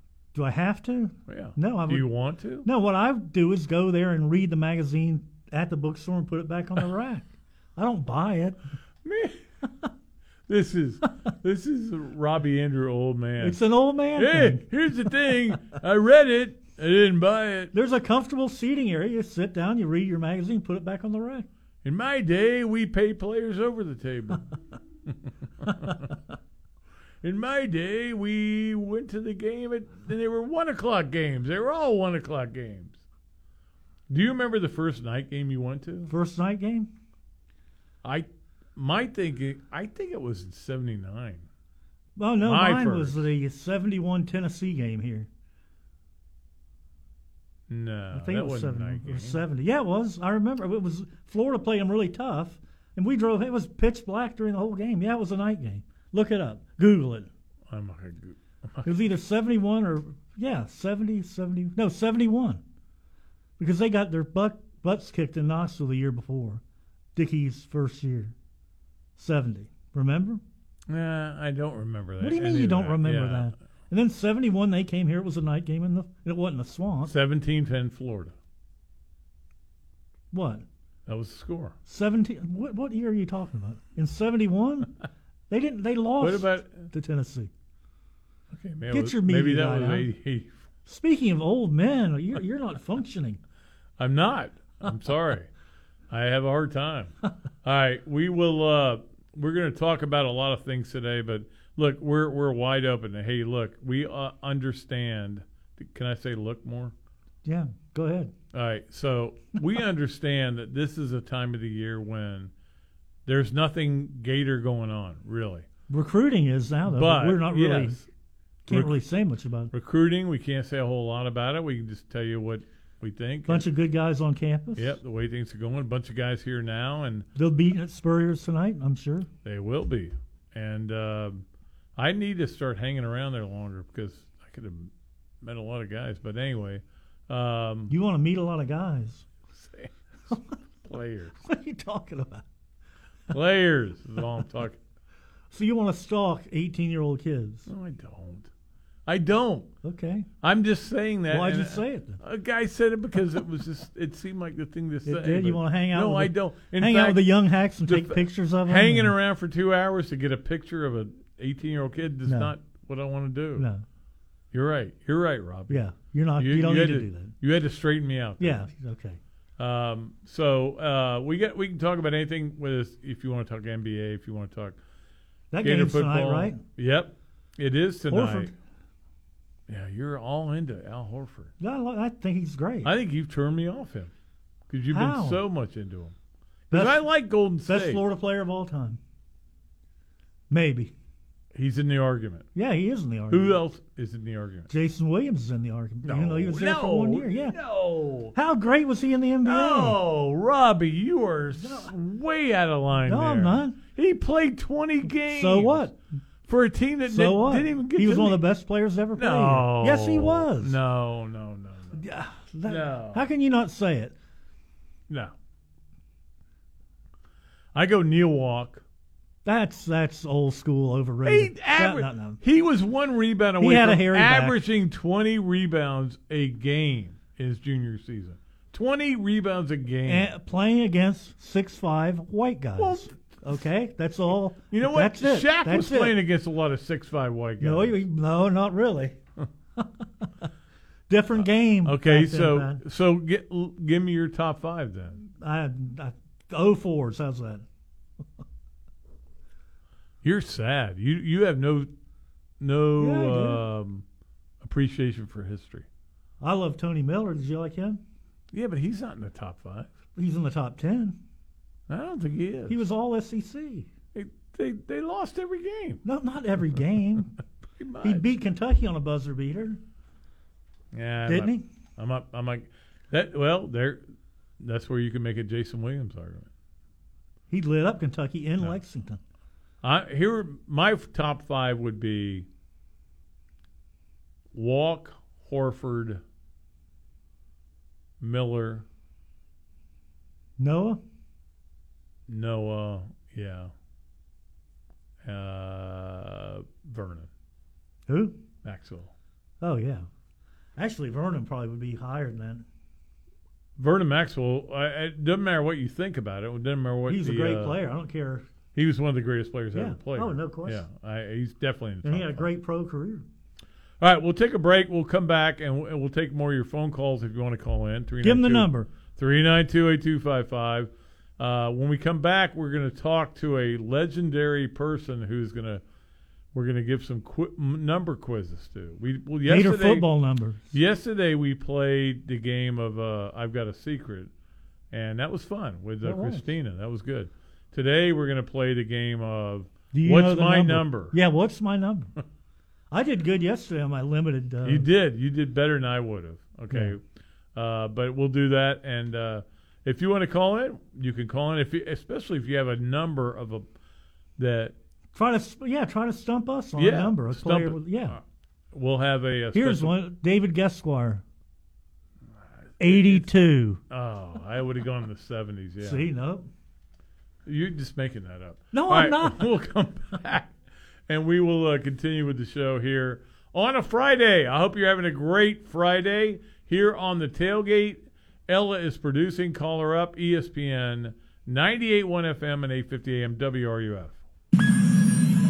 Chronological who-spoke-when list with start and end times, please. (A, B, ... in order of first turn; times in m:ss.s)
0:00.4-0:02.1 A
0:01.3-0:02.7 B
0:02.6-0:08.6 A
0:09.0-0:09.4 B
0:10.5-0:13.6 B
0:13.4-0:14.6 A
0:14.2-0:17.7 B
0:17.7-0:21.5 A
0:21.8-0:24.5 B
0:25.7-0:26.1 B
0:27.2-0:33.0 B
0:34.1-0:36.1 B
0:36.1-0:36.9 A
0:38.0-0:41.5 B
0:42.2-0:45.3 A
0:42.4-0:43.3 B
0:47.7-0:49.4 B
0:48.1-0:57.3 A
0:57.7-0:59.1 B
0:58.8-1:02.6 A
1:03.6-1:06.6 A
1:07.2-1:08.3 A
1:09.2-1:10.4 A
1:10.9-1:13.5 B
1:12.2-1:17.1 A
1:17.1-1:18.3 B
1:20.3-1:20.7 A
1:21.1-1:21.8 B
1:21.9-1:24.9 A
1:25.5-1:27.5 A
1:26.2-1:26.9 B
1:28.5-1:30.6 B
1:28.9-1:30.1 A
1:30.9-1:33.4 A
1:34.0-1:35.5 B
1:36.1-1:37.1 B
1:37.6-1:46.9 B
1:47.4-1:48.3 A
1:48.5-1:52.5 B
1:53.3-1:55.7 B
1:55.9-1:58.0 A
1:56.9-1:58.1 B
1:58.7-1:59.7 A
1:58.7-1:59.0 B
1:59.7-2:03.7 B
2:03.5-2:05.0 A
2:04.8-2:07.3 B
2:07.4-2:09.3 A
2:09.4-2:11.4 B
2:12.0-2:14.9 B
2:15.4-2:17.9 B
2:17.9-2:19.2 A
2:19.6-2:21.4 B
2:21.4-2:22.4 A
2:23.3-2:24.8 B
2:25.5-2:27.7 A
2:27.7-2:28.5 B
2:29.1-2:29.7 B
2:29.8-2:30.3 A
2:30.4-2:43.7 B
2:31.3-2:32.2 A
2:35.1-2:39.1 A
2:42.3-2:42.5 A
2:43.6-2:43.8 A
2:44.5-2:45.9 B
2:45.7-2:47.3 A
2:46.4-2:48.7 B
2:48.4-2:49.2 A
2:49.6-2:54.8 B
2:55.5-2:56.6 A
2:55.6-2:58.5 B
2:58.1-2:58.5 A
2:59.7-3:01.5 B
3:01.6-3:02.9 A
3:02.8-3:04.1 B
3:04.7-3:06.1 B
3:04.9-3:05.4 A
3:06.7-3:07.0 A
3:06.7-3:08.0 B
3:07.7-3:09.0 A
3:10.5-3:10.9 A
3:11.5-3:12.5 B
3:12.6-3:13.6 A
3:13.3-3:14.7 B
3:14.7-3:17.6 A
3:16.0-3:18.3 B
3:18.4-3:20.0 A
3:19.4-3:25.9 B
3:21.6-3:21.9 A
3:23.0-3:23.8 A
3:25.3-3:26.0 A
3:26.5-3:28.4 B
3:27.1-3:30.8 A
3:29.2-3:32.0 B
3:32.0-3:34.1 A
3:32.7-3:33.3 B
3:37.7-3:38.8 B
3:39.4-3:42.4 A
3:41.2-3:50.3 B
3:43.6-3:44.6 A
3:50.1-3:56.2 A
3:52.8-3:53.6 B
3:54.7-3:58.0 B
3:57.6-3:59.2 A
3:59.8-4:00.3 A
4:01.1-4:02.8 A
4:01.4-4:05.3 B
4:05.4-4:07.6 A
4:10.2-4:11.9 B
4:12.6-4:14.0 B
4:13.0-4:13.6 A
4:14.6-4:15.9 B
4:16.4-4:18.0 A
4:18.5-4:19.9 B
4:20.2-4:21.2 A
4:21.9-4:22.8 B
4:22.7-4:23.9 A
4:24.1-4:26.0 B
4:26.0-4:27.3 A
4:27.8-4:28.2 B
4:28.0-4:29.8 A
4:30.9-4:34.0 B
4:31.3-4:31.6 A
4:34.6-4:36.5 B
4:37.5-4:39.2 A
4:39.8-4:42.5 B
4:44.5-4:46.2 B
4:48.2-4:48.8 B
4:50.6-4:51.0 A
4:52.3-4:53.7 B
4:55.2-4:57.3 B
4:58.1-4:58.4 A
4:58.6-4:59.1 B
4:59.6-5:00.1 A
5:00.8-5:02.7 A
5:03.8-5:07.8 B
5:07.1-5:08.4 A
5:08.7-5:12.5 B
5:09.8-5:10.8 A
5:12.0-5:13.2 A
5:14.0-5:25.8 B
5:18.2-5:18.9 A
5:26.5-5:30.1 B
5:29.5-5:30.7 A
5:30.7-5:34.3 B
5:34.9-5:41.2 B
5:36.0-5:36.4 A
5:39.9-5:42.1 A
5:42.9-5:44.9 A
5:44.6-5:47.0 B
5:47.6-5:53.7 B
5:54.4-5:54.7 B
5:55.2-5:58.2 A
5:56.8-5:58.2 B
5:58.7-6:00.0 B
5:59.5-6:01.2 A
6:02.8-6:03.3 B
6:02.8-6:03.8 A
6:03.9-6:06.1 B
6:05.8-6:06.5 A
6:07.5-6:10.5 B
6:08.7-6:09.4 A
6:11.1-6:24.2 B